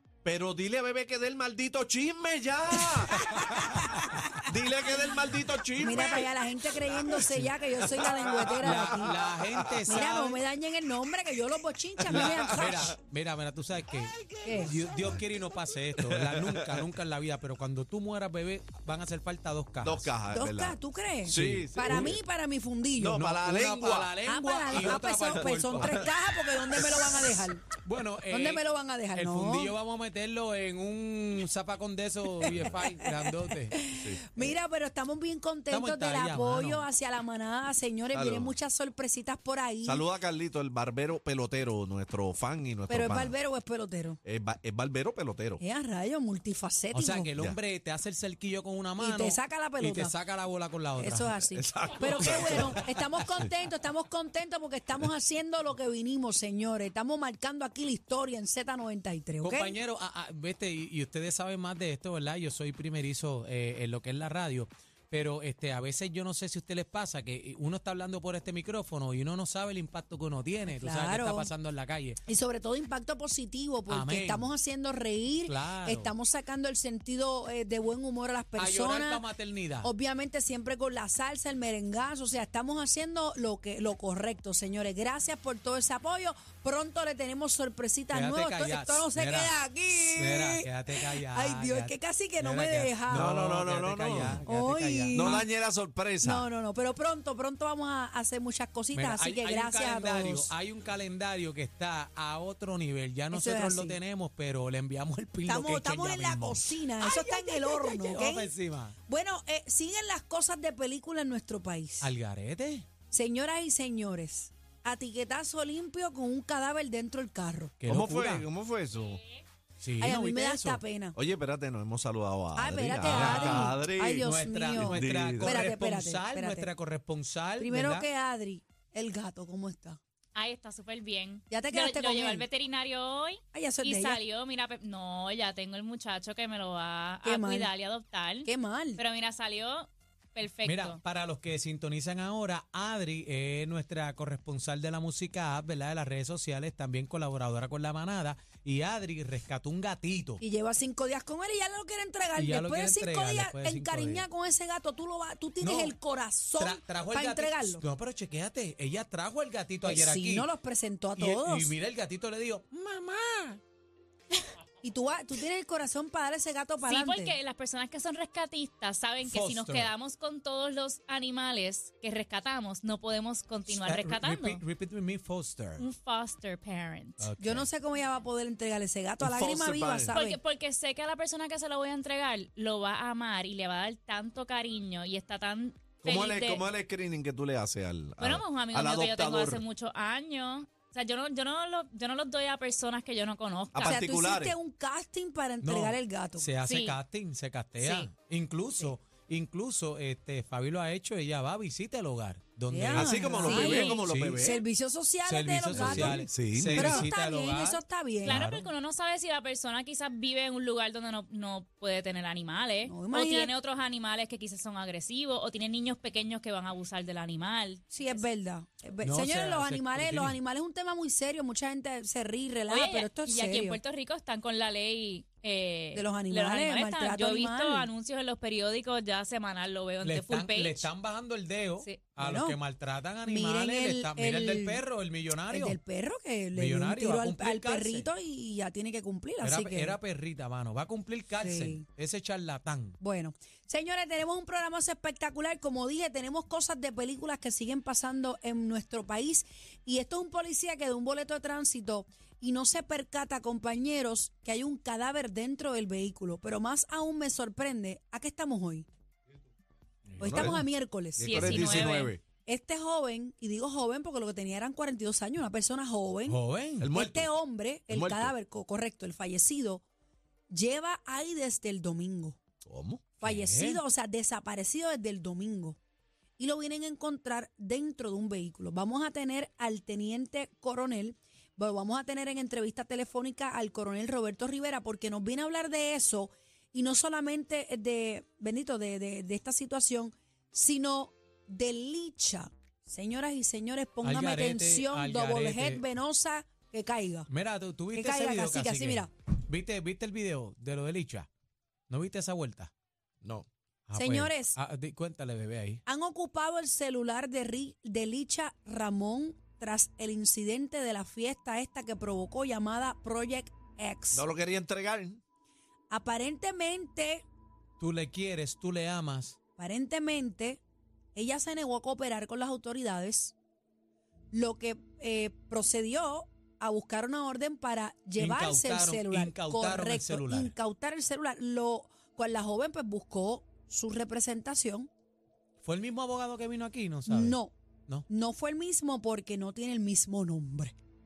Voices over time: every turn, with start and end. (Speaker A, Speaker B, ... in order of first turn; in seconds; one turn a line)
Speaker A: 0.2-3.8
Speaker B: 2.8-4.5
Speaker A: 4.4-7.2
Speaker B: 5.8-9.2
Speaker A: 7.8-9.8
Speaker C: 8.6-10.4
Speaker B: 9.9-12.9
Speaker A: 12.0-12.9
Speaker C: 12.1-20.1
Speaker A: 14.2-15.2
Speaker B: 14.4-14.8
Speaker A: 15.9-16.9
Speaker A: 19.8-22.2
Speaker B: 20.3-23.2
Speaker C: 21.3-22.2
Speaker A: 23.0-24.1
Speaker C: 23.1-26.1
Speaker B: 24.2-27.7
Speaker A: 24.7-25.0
Speaker C: 27.8-33.8
Speaker B: 28.3-29.8
Speaker B: 32.4-40.1
Speaker A: 32.4-32.8
Speaker A: 33.9-34.3
Speaker C: 35.7-36.9
Speaker A: 38.1-38.6
Speaker A: 39.9-43.4
Speaker B: 42.9-44.2
Speaker A: 44.2-45.6
Speaker B: 45.6-47.3
Speaker C: 46.9-51.3
Speaker B: 49.0-50.1
Speaker B: 51.0-59.8
Speaker A: 51.5-52.9
Speaker C: 52.1-52.8
Speaker C: 59.4-72.2
Speaker B: 70.7-71.5
Speaker B: 72.3-79.2
Speaker C: 73.9-74.5
Speaker C: 75.5-76.1
Speaker C: 78.6-79.9
Speaker B: 79.8-93.3
Speaker C: 88.1-95.3
Speaker A: 93.1-94.4
Speaker B: 94.5-95.5
Speaker A: 95.1-96.5
Speaker B: 96.2-100.5
Speaker C: 98.9-106.8
Speaker B: 103.3-104.0
Speaker B: 105.5-108.5
Speaker D: 107.0-107.8
Speaker C: 107.8-109.0
Speaker B: 109.1-112.1
Speaker C: 112.0-112.9
Speaker B: 113.1-117.8
Speaker C: 117.8-118.5
Speaker A: 117.9-119.2
Speaker C: 119.8-120.8
Speaker B: 120.0-121.2
Speaker A: 121.2-125.7
Speaker B: 122.6-126.7
Speaker C: 123.0-128.1
Speaker B: 127.6-130.0
Speaker D: 130.3-141.0
Speaker B: 131.5-132.5
Speaker B: 133.5-134.2
Speaker B: 137.2-137.7
Speaker B: 138.4-139.0
Speaker C: 140.6-150.4
Speaker B: 150.4-157.8
Speaker C: 152.3-154.3
Speaker C: 155.6-156.0
Speaker C: 156.6-160.5
Speaker B: 159.8-161.8
Speaker C: 161.2-163.6
Speaker B: 164.8-167.4
Speaker D: 166.9-174.6
Speaker C: 169.2-169.9
Speaker C: 173.7-175.8
Speaker D: 175.8-177.3
Speaker C: 177.2-177.7
Speaker B: 177.4-180.4
Speaker A: 179.2-180.2
Speaker D: 180.1-186.7
Speaker A: 186.0-189.6
Speaker D: 188.2-194.0
Speaker A: 193.7-194.6
Speaker B: 193.8-196.5
Speaker C: 195.6-204.5
Speaker D: 196.7-197.0
Speaker D: 197.8-198.1
Speaker B: 202.7-208.5
Speaker A: 202.9-204.6
Speaker C: 205.2-208.7
Speaker A: 205.7-207.1
Speaker D: 208.2-218.2
Speaker B: 212.9-213.5
Speaker B: 217.9-223.8
Speaker C: 219.0-220.4
Speaker D: 222.7-230.9
Speaker B: 225.9-227.9
Speaker C: 230.0-235.8
Speaker D: 231.8-232.1
Speaker B: 232.2-232.6
Speaker B: 233.2-234.8
Speaker B: 235.5-240.0
Speaker C: 236.5-238.1
Speaker C: 239.4-243.0
Speaker B: 241.4-241.8
Speaker B: 243.0-258.9
Speaker A: 260.2-260.6
Speaker C: 260.2-260.6
Speaker B: 260.2-261.5
Speaker A: 261.2-262.2
Speaker D: 261.2-262.1
Speaker C: 261.4-261.9
Speaker B: 262.5-266.4
Speaker C: 266.3-266.9
Speaker A: 266.8-267.3
Speaker B: 266.9-269.8
Speaker A: 267.9-268.3
Speaker B: 270.5-272.4
Speaker A: 272.6-273.1
Speaker B: 273.2-275.8
Speaker C: 273.2-273.8
Speaker B: 276.4-297.3
Speaker C: 294.0-295.8
Speaker C: 297.3-301.3
Speaker B: 297.9-299.1
Speaker C: 301.9-302.7
Speaker A: 303.2-303.5
Speaker C: 303.9-305.8
Speaker B: 303.9-304.6
Speaker B: 305.9-314.2
Speaker A: 314.1-315.2
Speaker B: 315.9-317.2
Speaker C: 317.8-319.4
Speaker B: 319.6-320.6
Speaker B: 321.1-323.4
Speaker B: 324.3-334.9
Speaker C: 328.2-330.6
Speaker C: 335.6-338.1
Speaker B: 337.1-337.6
Speaker B: 338.1-340.8